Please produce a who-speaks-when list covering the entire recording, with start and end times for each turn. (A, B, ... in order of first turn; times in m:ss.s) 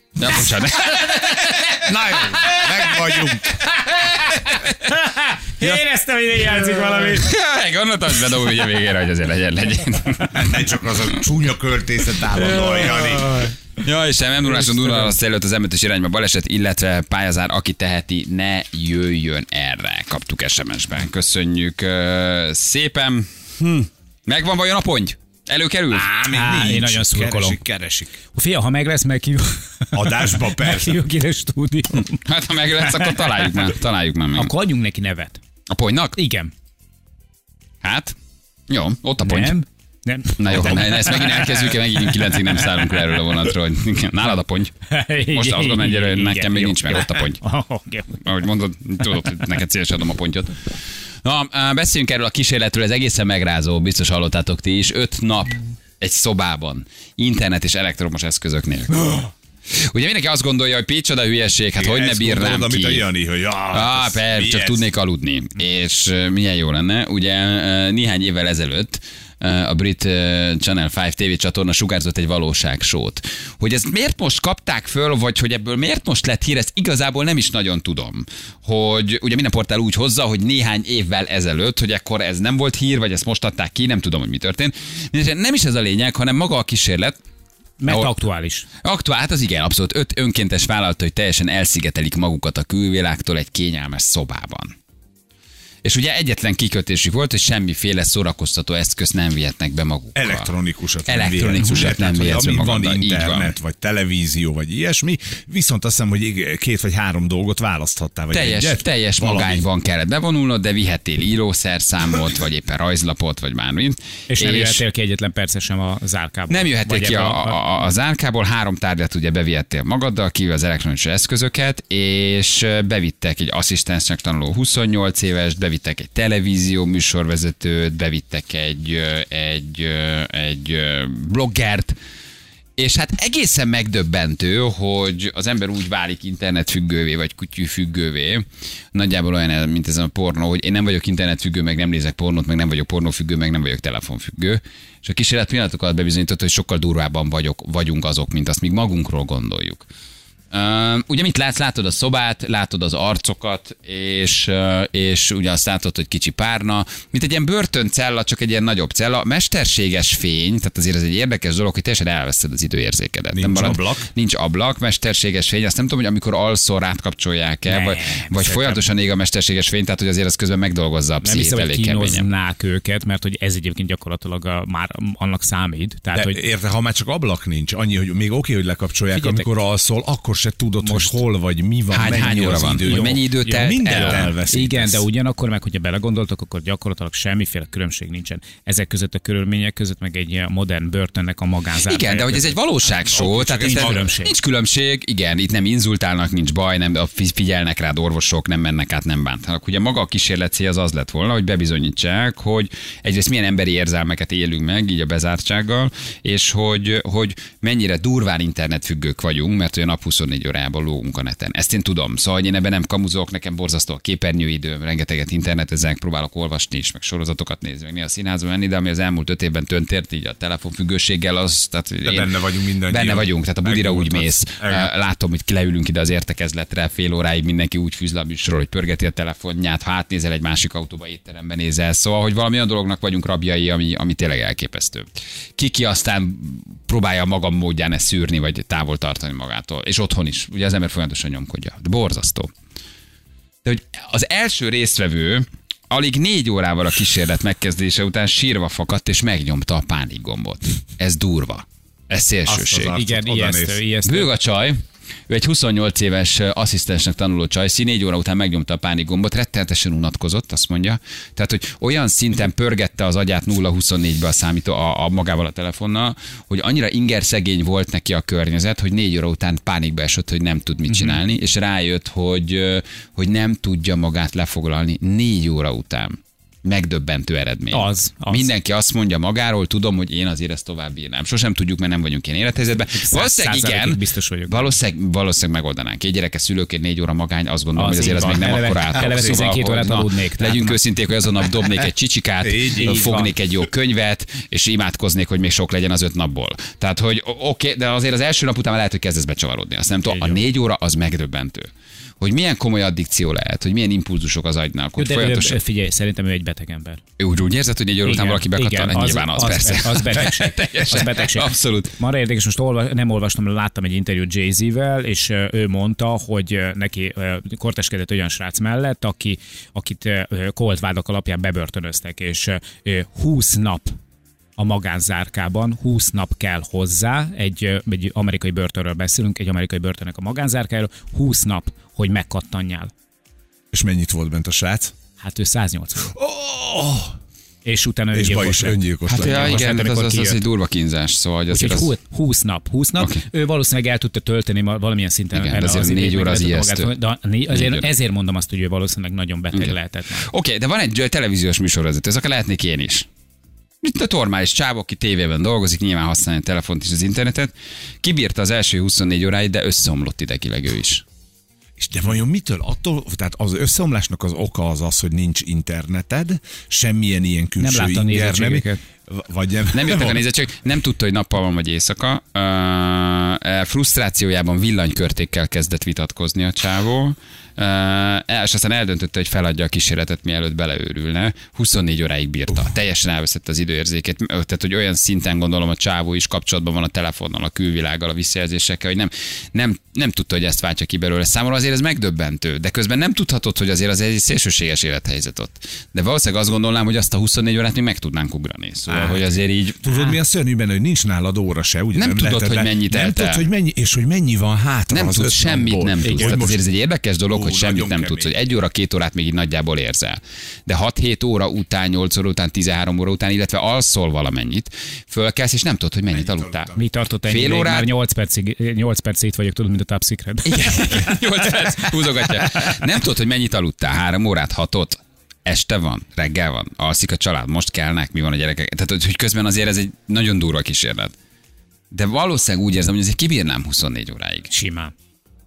0:00.2-0:02.7 A
0:01.9-0:03.5 B
0:04.8-0:07.3 C
0:07.2-0:10.5 A
0:10.3-0:13.5 B
0:12.6-0:26.1 A
0:25.9-0:28.2 B
0:26.3-0:27.6 C
0:28.3-0:32.2 C
0:29.9-0:31.0 B
0:32.2-0:34.5 A
0:32.8-0:33.6 C
0:34.4-0:35.4 C
0:35.7-0:36.2 A
0:36.2-0:36.5 C
0:37.8-0:38.1 A
0:38.7-0:39.6 A
0:39.2-0:43.0 C
0:40.4-0:44.7 A
0:44.9-0:48.2 C
0:45.3-0:47.4 A
0:48.2-1:03.1 A
1:01.8-1:04.8 B
1:03.7-1:27.2 A
1:27.8-1:28.6 C
1:27.9-1:28.1 A
1:28.8-1:34.7 A
1:35.8-1:40.5 A
1:40.1-1:49.6 B
1:41.0-1:43.5 A
1:48.3-1:54.8 A
1:54.3-1:57.6 C
1:56.5-2:12.0 A
2:12.8-2:29.9 A
2:30.5-2:52.2 A
2:43.3-2:44.1 B
2:47.6-2:48.8 C
2:51.2-2:56.4 C
2:56.1-3:05.0 B
2:59.1-2:59.5 C
3:00.8-3:01.2 C
3:01.9-3:04.3 A
3:02.4-3:12.5 C
3:11.8-3:42.3 A
3:12.8-3:14.1 B
3:13.5-3:14.3 C
3:42.0-3:44.9 B
3:42.9-4:02.5 A
4:03.6-4:12.9 A
4:12.4-4:13.8 B
4:12.9-4:14.3 C
4:14.0-5:05.6 A
4:30.9-4:31.2 C
4:37.7-4:38.5 C
4:43.0-4:44.7 C
4:47.8-4:50.8 C
4:48.3-4:49.3 B
4:52.4-4:53.3 B
4:52.8-4:53.3 C
5:00.1-5:00.4 C
5:05.0-5:07.0 C
5:07.2-5:11.9 A
5:08.0-5:24.0 C
5:24.6-5:32.9 C
5:33.7-5:34.9 B
5:35.2-5:36.1 C
5:36.1-5:37.2 B
5:37.6-5:40.4 C
5:38.1-5:39.7 B
5:39.1-5:41.9 A
5:41.5-5:50.3 C
5:45.3-5:46.9 A
5:47.5-5:47.9 A
5:49.5-5:53.1 A
5:53.8-6:01.0 A
6:01.8-6:10.2 B
6:07.6-6:08.8 C
6:09.7-6:40.0 A
6:38.9-6:46.6 B
6:41.9-6:43.4 A
6:44.9-6:56.7 A
6:46.1-6:46.3 C
6:47.3-6:48.3 B
6:56.1-6:56.8 B
6:56.8-7:00.6 C
6:57.2-6:57.9 A
7:00.4-7:11.1 A
7:01.6-7:02.7 B
7:11.9-7:14.5 A
7:14.5-7:14.9 C